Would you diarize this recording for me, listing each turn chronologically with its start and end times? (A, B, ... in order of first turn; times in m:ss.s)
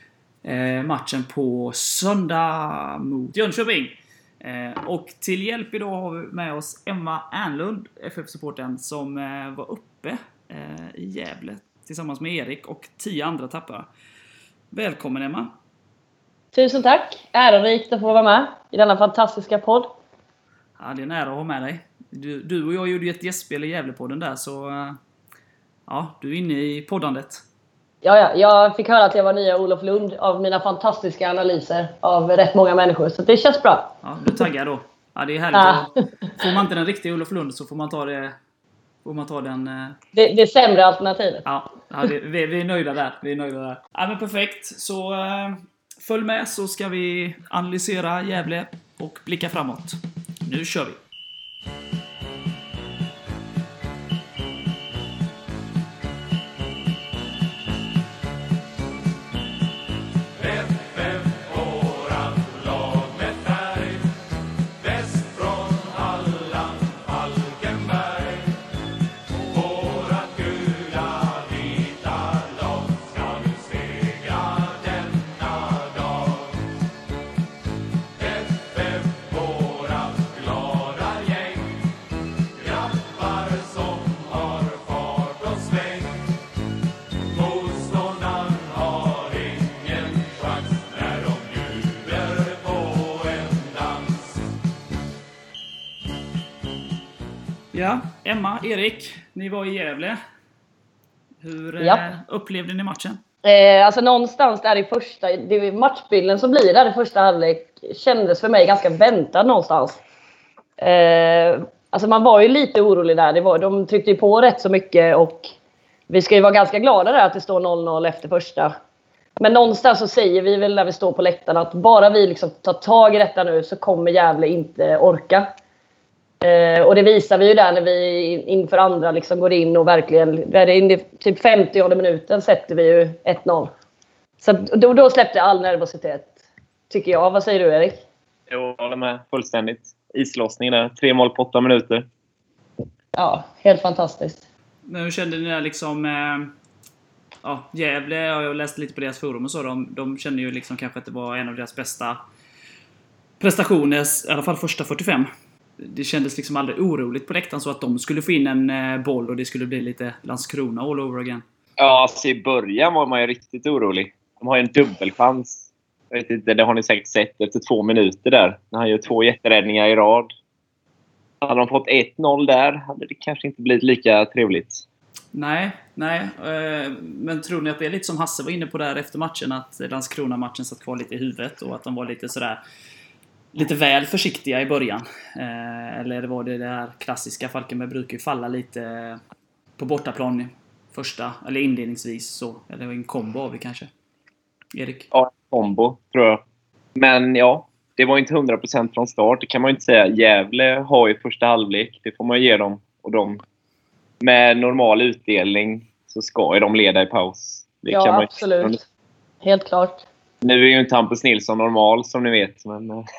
0:00.4-0:13.9 A
0:14.7-0:15.5 A
0:16.5-0:19.9 B
0:20.8-0:25.0 A
0:25.9-0:27.4 A
0:28.0-0:33.9 B
0:34.0-0:38.4 A
0:35.5-0:36.4 B
0:39.0-0:40.0 A
0:40.1-0:41.4 B
0:41.4-0:51.0 A
1:05.3-1:06.6 A
1:07.6-1:08.1 A
1:10.4-1:11.2 A
1:13.2-1:14.6 A
1:19.3-1:21.5 A
1:23.4-1:25.9 A
1:37.7-1:40.2 A
1:41.4-1:43.2 A
1:41.8-1:42.1 B
1:43.4-1:50.0 B
1:50.8-1:55.5 B
1:56.1-1:58.7 B
1:59.4-2:05.5 B
2:06.4-2:13.7 B
2:14.4-2:16.3 B
2:16.9-2:18.0 B
2:18.5-2:22.1 C
2:23.1-2:24.4 B
2:24.8-2:26.5 A
2:27.4-2:32.2 A
2:33.4-2:41.4 A
2:41.8-2:50.3 C
2:51.4-2:54.8 C
2:55.3-3:02.6 A
3:03.5-3:09.2 A
3:09.8-3:13.9 A
3:14.7-3:15.1 A
3:15.1-3:16.4 C
3:17.0-3:23.4 C
3:24.2-3:28.8 C
3:27.9-3:28.8 B
3:29.4-3:30.0 B
3:30.4-3:33.0 C